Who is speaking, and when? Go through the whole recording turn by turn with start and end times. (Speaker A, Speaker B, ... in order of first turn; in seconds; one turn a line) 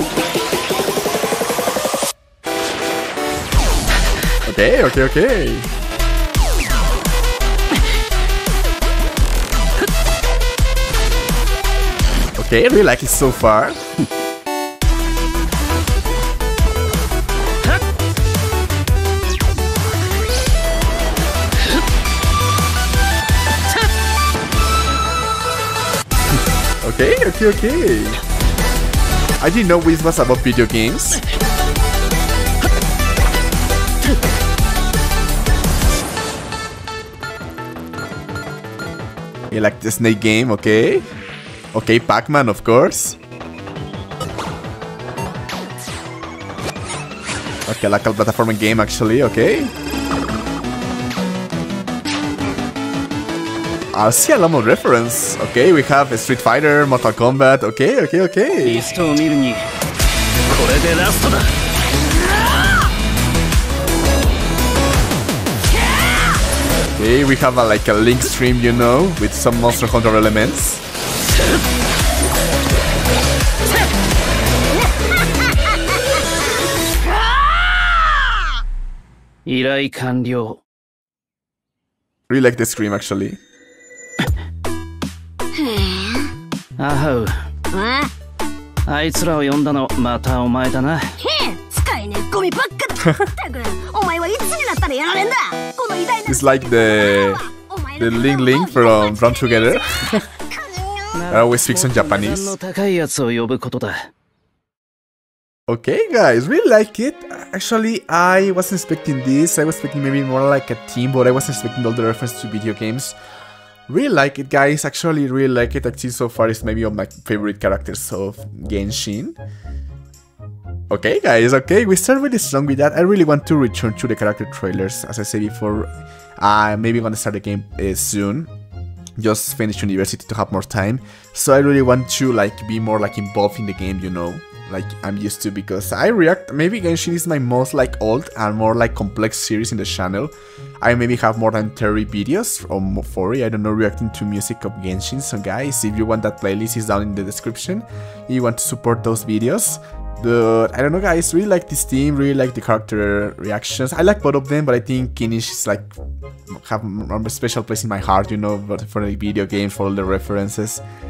Speaker A: 4.4-5.7
Speaker A: 12.4-13.8
Speaker A: 26.8-28.2
Speaker A: 29.4-31.2
Speaker A: 39.5-41.0
Speaker A: 41.7-43.2
Speaker A: 47.7-49.7
Speaker A: 53.9-58.9
Speaker B: 58.6-59.7
Speaker B: 60.5-61.5
Speaker A: 67.0-70.8
Speaker B: 79.5-80.6
Speaker A: 82.3-83.4
Speaker C: 85.6-86.3
Speaker B: 86.8-87.5
Speaker C: 87.7-88.1
Speaker B: 88.9-91.2
Speaker C: 91.2-99.3
Speaker A: 96.2-100.3
Speaker C: 100.5-101.1
Speaker B: 101.1-104.1
Speaker A: 101.3-102.5
Speaker A: 105.7-113.2
Speaker A: 113.9-119.4
Speaker A: 120.9-128.5
Speaker A: 129.2-155.9
Speaker A: 156.5-160.8